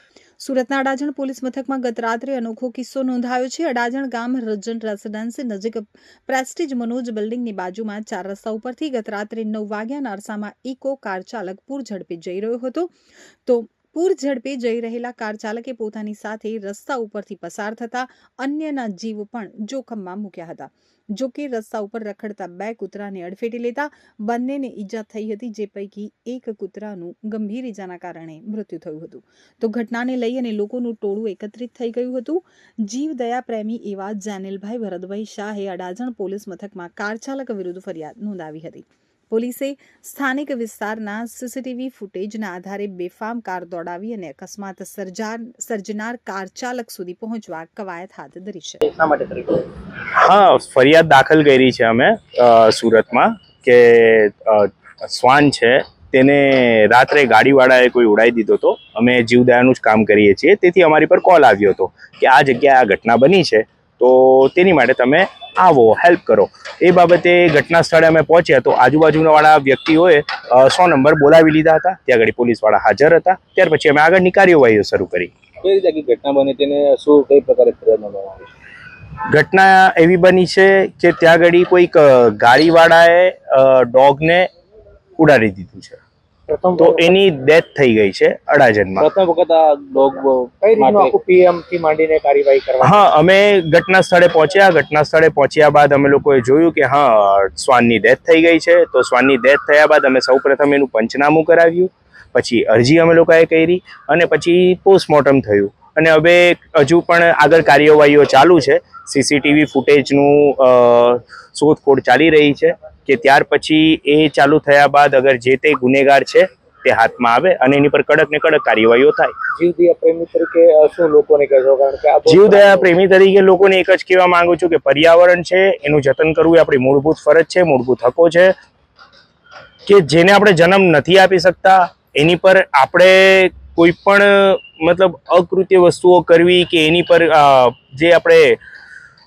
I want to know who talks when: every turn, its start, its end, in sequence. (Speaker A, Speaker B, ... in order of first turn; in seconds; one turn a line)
Speaker A: 0.4-12.9
Speaker A: 13.4-49.0
Speaker B: 50.1-75.3
Speaker C: 75.6-78.5
Speaker B: 79.3-84.5
Speaker B: 85.2-86.0
Speaker D: 86.5-87.2
Speaker B: 86.8-89.1
Speaker C: 89.0-91.2
Speaker D: 90.6-93.1
Speaker B: 92.8-119.3
Speaker D: 119.6-122.9
Speaker B: 122.3-128.5
Speaker B: 129.9-138.6